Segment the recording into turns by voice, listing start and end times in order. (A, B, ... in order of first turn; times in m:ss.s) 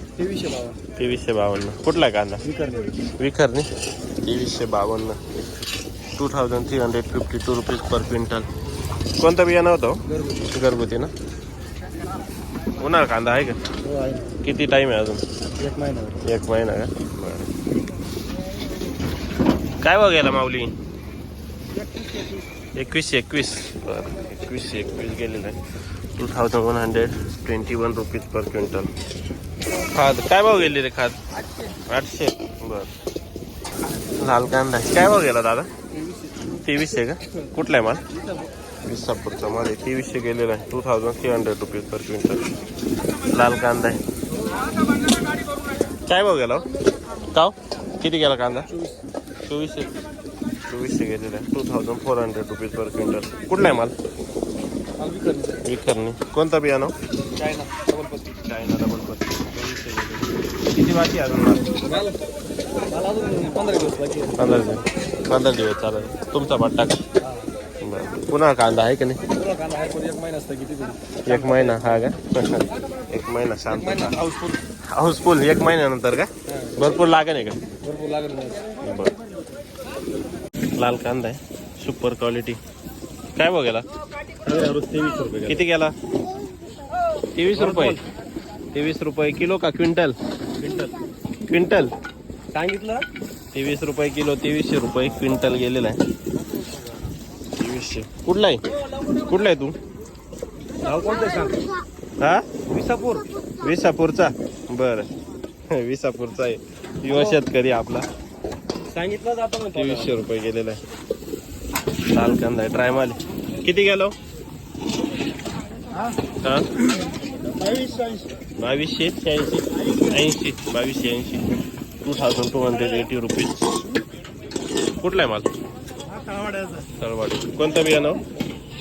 0:00.2-0:00.8 A
0:01.0-0:02.4 B
0:02.4-0:03.0 A
0:03.2-0:03.7 B
0:04.2-0:05.2 B
0:06.2-0:08.5 B
0:09.2-0:11.1 B
0:10.1-0:10.5 A
0:12.8-0:13.6 B
0:13.8-0:14.3 A
0:14.4-0:15.2 B
0:15.6-0:16.2 A
0:16.2-0:17.5 B
0:19.8-0:20.7 B
0:21.8-0:22.4 A
0:22.8-0:25.6 B
0:26.2-0:28.9 B
0:29.8-0:31.2 B
0:31.8-0:32.9 B
0:34.2-0:35.7 B
0:36.6-0:38.0 B
0:38.8-0:42.5 B
0:43.3-0:44.0 B
0:46.1-0:46.7 B
0:47.3-0:48.7 B
0:48.7-0:49.0 A
0:49.5-0:49.9 B
0:50.7-0:53.9 B
0:55.0-0:55.6 A
0:55.6-0:56.9 B
0:57.4-0:58.4 A
0:58.4-1:01.7 B
1:01.8-1:02.2 A
1:02.9-1:04.5 A
1:04.4-1:07.0 B
1:07.8-1:09.2 B
1:09.3-1:12.0 A
1:11.2-1:14.2 B
1:13.7-1:14.6 A
1:14.9-1:17.6 B
1:16.5-1:16.9 A
1:17.8-1:18.7 A
1:18.8-1:19.1 B
1:20.8-1:22.6 B
1:23.4-1:23.9 B
1:24.4-1:25.6 A
1:25.5-1:26.0 B
1:27.4-1:28.0 B
1:27.5-1:28.0 A
1:28.7-1:30.2 B
1:30.6-1:30.9 A
1:31.5-1:31.9 B
1:32.5-1:33.1 A
1:33.5-1:36.0 B
1:37.6-1:38.6 B
1:39.2-1:39.8 B
1:40.8-1:41.7 A
1:42.2-1:42.5 B
1:42.7-1:43.4 A
1:43.6-1:45.1 B
1:45.7-1:48.1 B
1:47.1-1:47.4 A
1:48.8-1:50.2 A
1:49.7-1:50.8 B
1:52.1-1:54.2 B
1:56.4-1:56.7 B
1:57.6-1:58.3 A
1:58.6-2:01.4 B
2:02.0-2:03.8 B
2:05.0-2:05.5 B
2:06.3-2:06.8 A
2:06.8-2:08.2 B